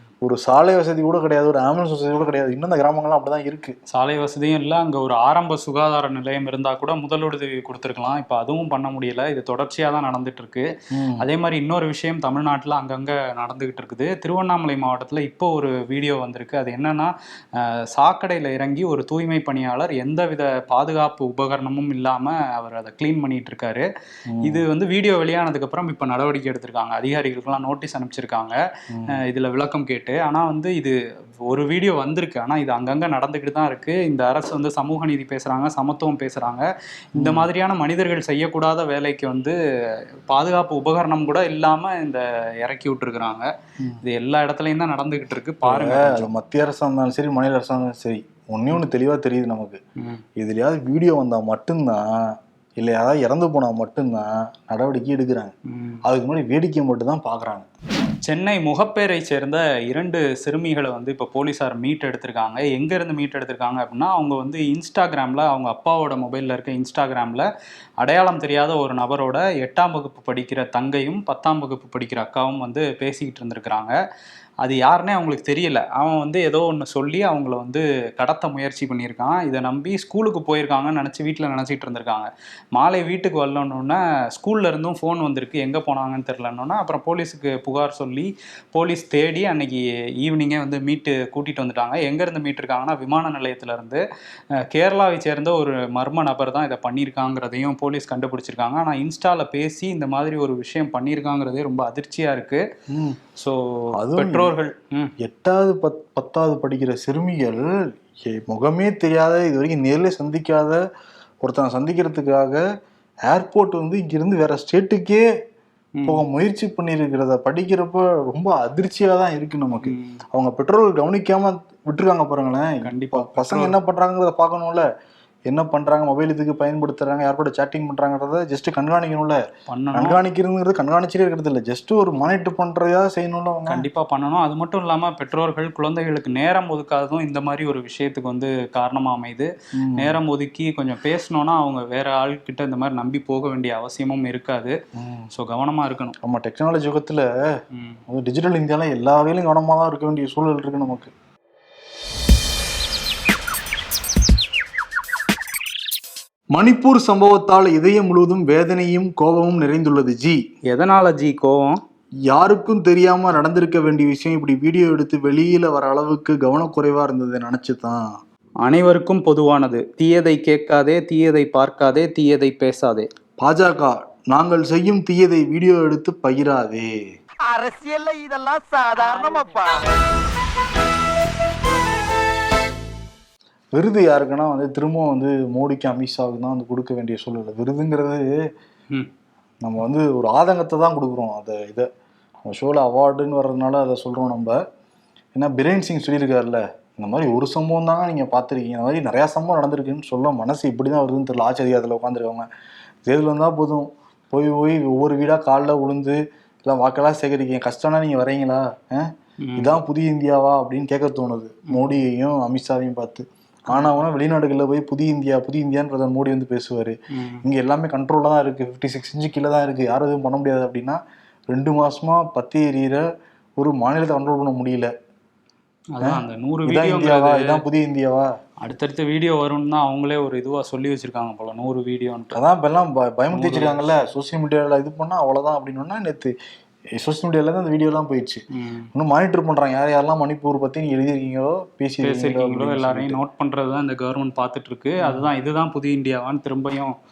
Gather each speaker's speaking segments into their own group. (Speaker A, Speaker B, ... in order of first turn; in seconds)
Speaker A: 0.2-3.7, 10.9-11.2, 24.3-24.6, 37.2-37.5, 45.6-49.8, 50.4-55.5, 56.0-57.6, 102.9-103.2, 104.0-104.5, 105.2-110.8, 111.4-112.6, 113.3-115.3, 116.0-124.8, 125.5-129.4, 129.9-133.8, 139.8-140.2, 144.9-145.3, 146.2-147.3, 148.1-151.1, 156.6-160.4, 162.3-168.2, 173.4-177.0, 183.8-188.4, 189.6-191.9, 192.4-194.6, 195.3-202.5, 203.1-221.0, 221.5-223.1, 223.6-224.9, 226.0-228.3, 232.3-236.3, 237.0-238.4, 238.9-243.2, 245.0-245.3
Speaker B: 3.9-23.9, 24.4-28.6, 29.1-39.6, 40.3-43.5, 44.0-46.3, 55.7-56.0, 58.2-67.5, 68.0-74.0, 74.6-94.0, 94.5-102.7, 103.3-105.1, 116.0-116.2, 119.8-120.2, 122.8-123.8, 129.7-130.2, 133.7-144.8, 145.3-146.2, 147.7-148.0, 160.7-161.8, 168.6-173.1, 209.4-209.8, 213.7-214.0, 217.1-217.4, 225.9-227.6, 228.6-232.4, 233.3-233.8, 238.5-238.9, 242.0-247.0
Speaker C: 177.4-179.9